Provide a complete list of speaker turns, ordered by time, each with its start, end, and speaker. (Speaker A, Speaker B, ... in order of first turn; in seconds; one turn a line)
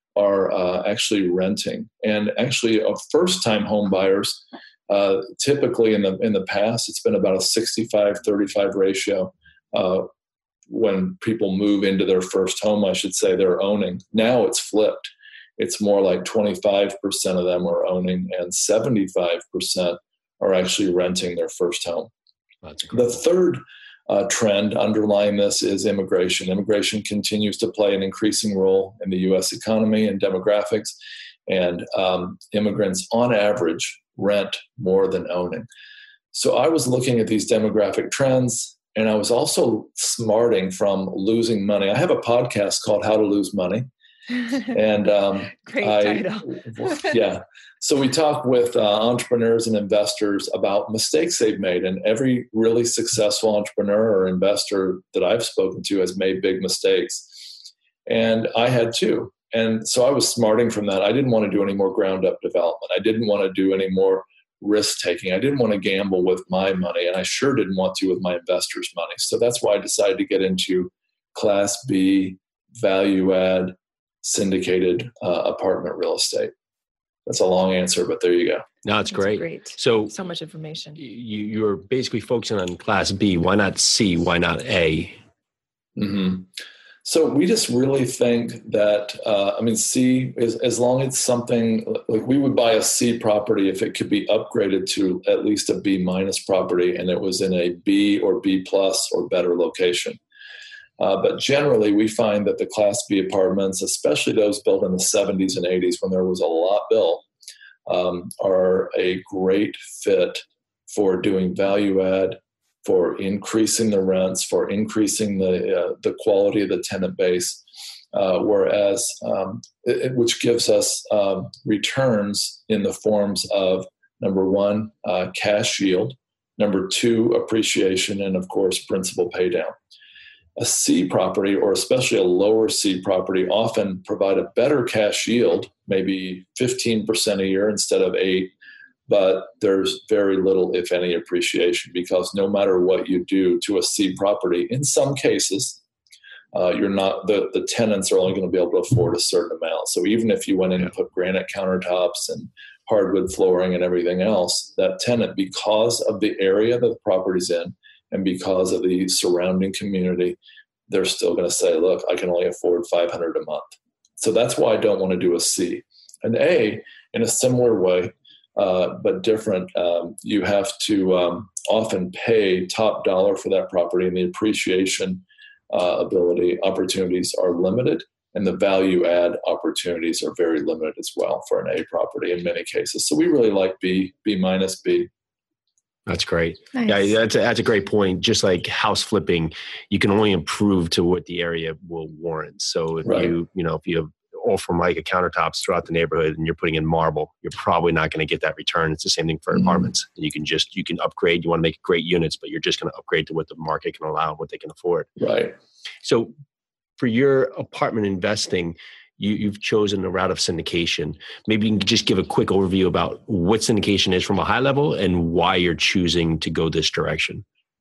Speaker A: 0.1-10.1
Speaker A: 10.7-22.1
Speaker B: 22.6-23.0
Speaker A: 22.9-30.9
Speaker A: 31.5-35.7
Speaker A: 36.3-43.9
Speaker A: 44.7-76.5
Speaker C: 45.7-47.1
Speaker A: 77.3-78.7
Speaker B: 78.8-80.1
Speaker C: 79.1-81.0
Speaker B: 81.0-85.2
Speaker A: 86.0-86.5
Speaker A: 87.0-100.2
Speaker A: 101.0-107.2
Speaker A: 107.9-129.8
Speaker A: 130.6-138.5
Speaker A: 139.1-145.8
Speaker A: 146.5-160.4
Speaker A: 160.9-185.1
Speaker B: 186.1-205.1
Speaker C: 186.8-187.1
Speaker A: 193.0-193.3
Speaker A: 205.2-205.6
Speaker B: 206.0-206.3
Speaker B: 207.0-217.4